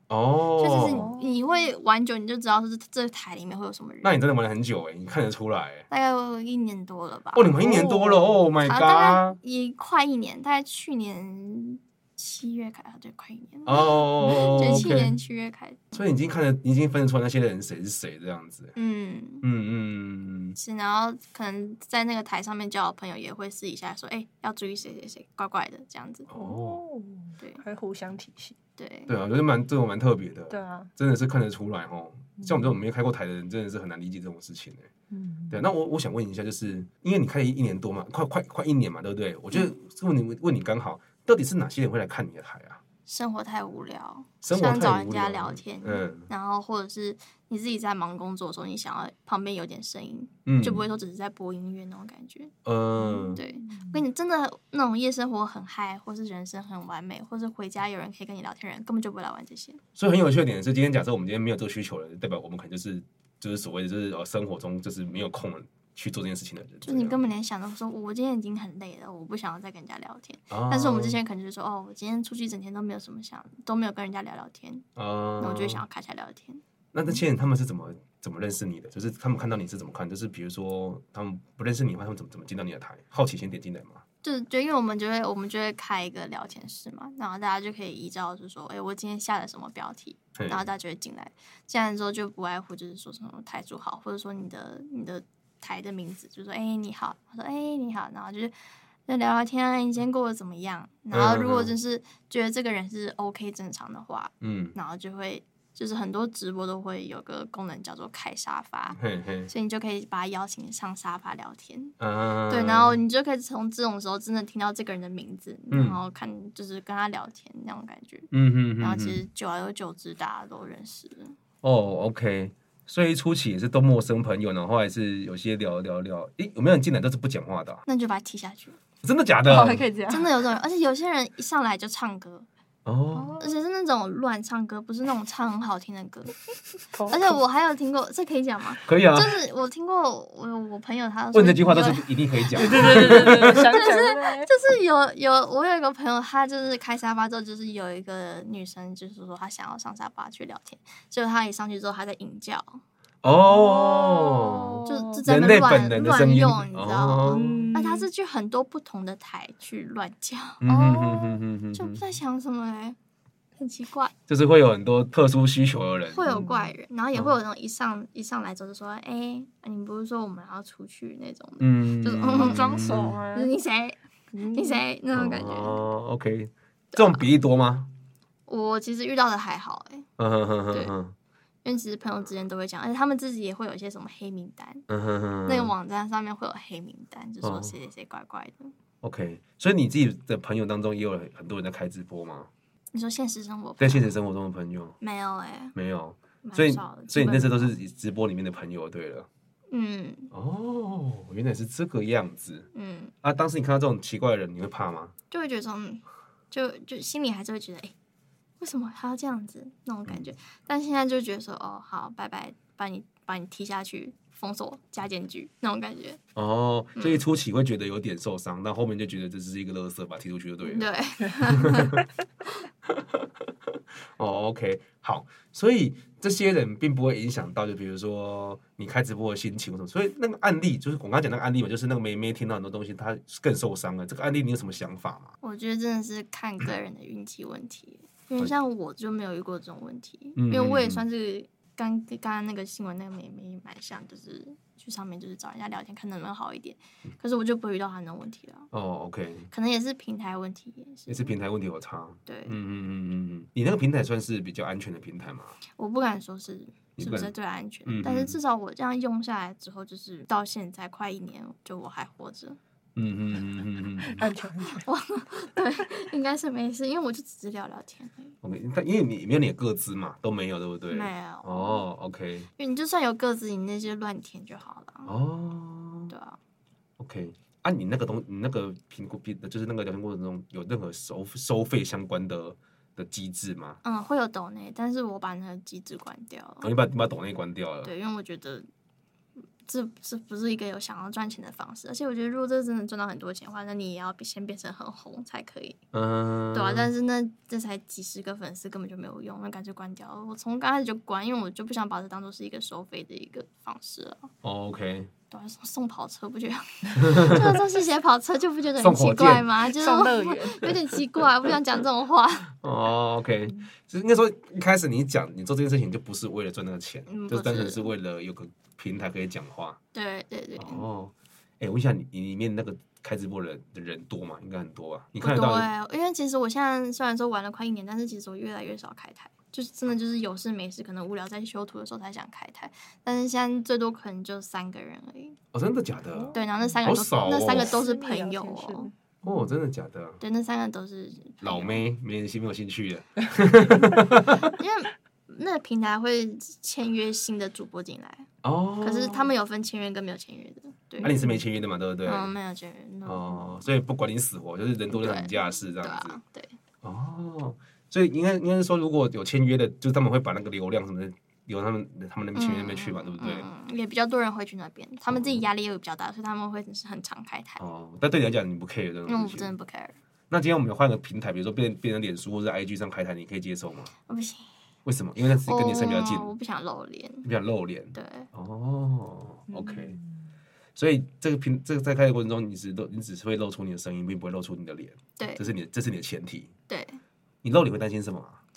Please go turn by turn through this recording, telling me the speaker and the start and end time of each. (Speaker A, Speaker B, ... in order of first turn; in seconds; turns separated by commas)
Speaker A: 0.1-1.1, Speaker B: 0.6-4.2, Speaker C: 0.7-1.7, Speaker A: 4.0-5.8, Speaker B: 5.9-7.5, Speaker A: 7.3-9.4, Speaker C: 7.6-8.3, Speaker B: 8.6-16.0, Speaker A: 13.7-15.2, Speaker A: 15.9-18.7, Speaker B: 18.8-19.4, Speaker A: 19.4-20.6, Speaker B: 20.6-26.3, Speaker A: 26.3-26.8, Speaker C: 26.3-28.5, Speaker B: 28.8-29.1, Speaker A: 29.1-34.9, Speaker C: 30.5-30.9, Speaker C: 32.4-32.7, Speaker C: 35.1-35.6, Speaker A: 35.5-42.8, Speaker B: 43.0-52.5, Speaker A: 44.4-46.3, Speaker A: 50.5-50.9, Speaker A: 52.6-53.4, Speaker C: 53.0-54.0, Speaker B: 53.3-59.8, Speaker A: 60.0-67.2, Speaker B: 66.8-74.8, Speaker A: 70.5-71.2, Speaker A: 75.0-75.8, Speaker B: 75.4-76.6, Speaker A: 76.9-84.0, Speaker B: 84.2-98.5, Speaker A: 90.4-90.7, Speaker B: 99.0-111.9, Speaker A: 101.1-101.7, Speaker A: 104.4-104.8, Speaker A: 109.0-109.5, Speaker A: 112.0-113.0, Speaker B: 112.5-121.3, Speaker A: 115.7-116.0, Speaker A: 118.3-119.2, Speaker A: 121.6-127.8, Speaker B: 127.8-128.8, Speaker A: 129.0-129.9, Speaker C: 129.4-130.3, Speaker B: 130.1-132.5, Speaker A: 132.8-133.4, Speaker C: 133.1-133.5, Speaker B: 133.4-136.3, Speaker C: 136.9-137.4, Speaker B: 137.1-152.8, Speaker A: 138.8-139.4, Speaker A: 141.3-143.7, Speaker C: 142.6-144.5, Speaker A: 153.2-157.7, Speaker C: 153.4-155.2, Speaker B: 154.8-163.0, Speaker C: 157.2-158.1, Speaker A: 160.6-162.0, Speaker B: 163.6-164.1, Speaker A: 164.3-166.3, Speaker B: 166.1-174.0, Speaker C: 166.3-166.7, Speaker A: 171.6-173.2, Speaker C: 172.3-173.5, Speaker C: 174.3-174.8, Speaker B: 174.5-175.8, Speaker A: 175.1-177.9, Speaker B: 176.9-177.2, Speaker B: 178.5-180.1, Speaker A: 180.2-181.1, Speaker B: 181.6-184.8, Speaker A: 184.9-185.7, Speaker B: 185.4-188.7, Speaker A: 187.4-187.8, Speaker A: 189.0-192.5, Speaker B: 192.9-194.2, Speaker A: 193.8-194.9, Speaker B: 195.0-195.7, Speaker A: 195.7-199.3, Speaker B: 196.4-197.7, Speaker B: 199.7-200.3, Speaker A: 200.3-202.7, Speaker B: 202.7-203.1, Speaker A: 203.2-205.1, Speaker B: 205.3-207.9, Speaker B: 208.6-216.2, Speaker A: 216.3-220.9, Speaker B: 216.9-217.2, Speaker B: 220.6-221.9, Speaker A: 221.4-222.0, Speaker A: 222.9-223.2, Speaker A: 224.2-235.3, Speaker B: 235.4-248.7, Speaker A: 240.3-241.0, Speaker A: 248.7-249.5, Speaker B: 249.5-251.3, Speaker A: 251.1-255.6, Speaker B: 252.2-252.6, Speaker B: 255.8-262.6, Speaker A: 257.0-257.3, Speaker A: 257.9-258.4, Speaker A: 262.9-264.2, Speaker C: 264.1-264.8, Speaker B: 264.7-268.3, Speaker A: 268.4-272.5, Speaker B: 270.9-271.9, Speaker B: 272.6-275.1, Speaker A: 275.1-276.1, Speaker B: 276.1-276.4, Speaker A: 277.0-283.8, Speaker B: 283.8-286.7, Speaker A: 286.6-287.9, Speaker B: 287.8-288.6, Speaker B: 289.6-295.8, Speaker A: 295.9-296.9, Speaker B: 296.5-304.3, Speaker A: 304.4-305.1, Speaker B: 305.3-312.5, Speaker A: 307.0-307.6, Speaker A: 308.8-309.6, Speaker C: 309.6-310.8, Speaker A: 312.6-319.8, Speaker B: 317.1-317.9, Speaker B: 319.9-320.9, Speaker A: 320.6-325.7, Speaker B: 325.2-335.4, Speaker A: 335.5-337.8, Speaker C: 336.1-336.4, Speaker B: 336.3-338.9, Speaker C: 337.5-339.4, Speaker A: 339.2-340.2, Speaker B: 340.2-341.8, Speaker A: 341.4-344.5, Speaker B: 344.4-348.3, Speaker A: 348.4-349.3, Speaker B: 348.8-351.1, Speaker C: 351.0-351.4, Speaker A: 351.0-352.3, Speaker B: 352.0-353.7, Speaker A: 353.0-356.2, Speaker B: 354.9-356.6, Speaker A: 356.8-363.5, Speaker B: 362.3-367.6, Speaker A: 365.1-365.4, Speaker A: 367.6-369.5, Speaker B: 369.1-369.9, Speaker A: 370.3-373.9, Speaker B: 374.1-374.5, Speaker A: 374.8-376.3, Speaker B: 375.4-377.2, Speaker A: 377.2-380.0, Speaker B: 377.9-378.3, Speaker C: 379.5-380.1, Speaker A: 380.8-386.5, Speaker B: 385.1-385.5, Speaker B: 386.7-387.0, Speaker A: 387.4-388.4